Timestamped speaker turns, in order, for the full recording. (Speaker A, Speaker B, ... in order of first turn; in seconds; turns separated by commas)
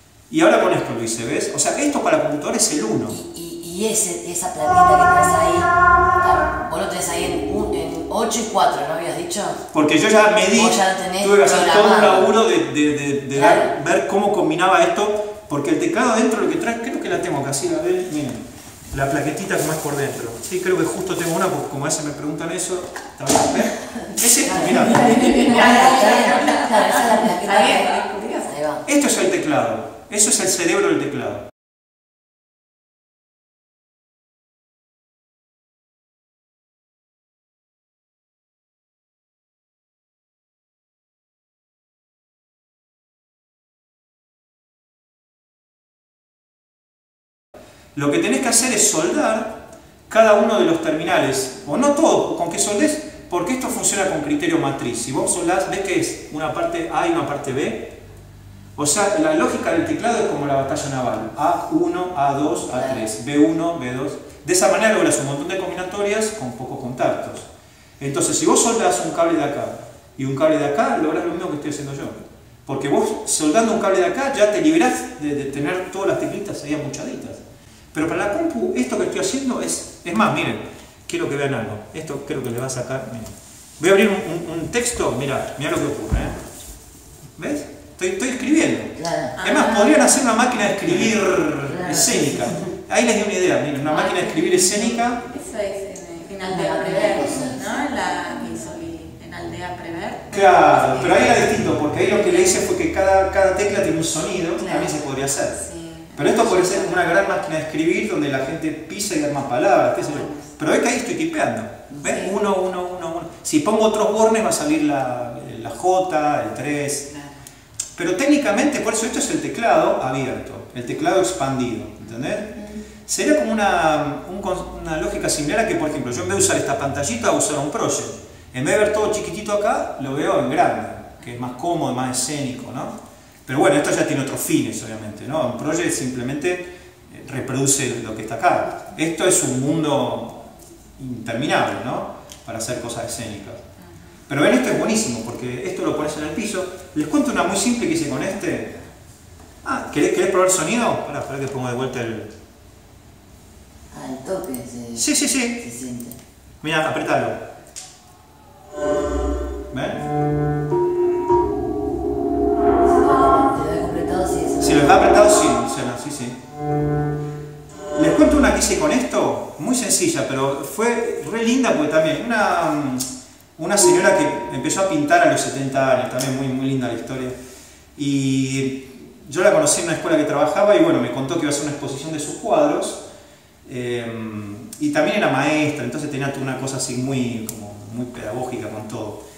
Speaker A: 0.3-3.2, Speaker B: 3.1-9.6, Speaker A: 9.7-25.2, Speaker B: 10.5-12.3, Speaker B: 13.3-13.7, Speaker B: 24.4-28.8, Speaker C: 25.0-28.5, Speaker A: 28.9-31.5, Speaker A: 47.9-49.6, Speaker A: 50.1-57.9, Speaker A: 58.8-77.4, Speaker B: 62.7-63.0, Speaker A: 77.9-86.4, Speaker A: 87.4-95.2, Speaker B: 89.0-89.4, Speaker C: 89.4-90.4, Speaker B: 90.8-92.7, Speaker C: 93.9-101.3, Speaker B: 96.5-97.6, Speaker A: 100.3-105.6, Speaker C: 102.2-102.6, Speaker C: 104.6-107.0, Speaker A: 106.1-117.1, Speaker C: 110.0-110.5, Speaker C: 112.0-112.3, Speaker A: 118.0-140.4, Speaker A: 140.9-143.6, Speaker A: 144.3-148.7, Speaker A: 149.6-152.3, Speaker B: 153.9-156.2, Speaker A: 154.9-155.6, Speaker A: 156.6-157.4, Speaker A: 159.7-160.0, Speaker B: 162.8-165.2, Speaker A: 164.6-166.4, Speaker A: 167.9-177.4, Speaker A: 177.9-183.0, Speaker A: 183.6-189.2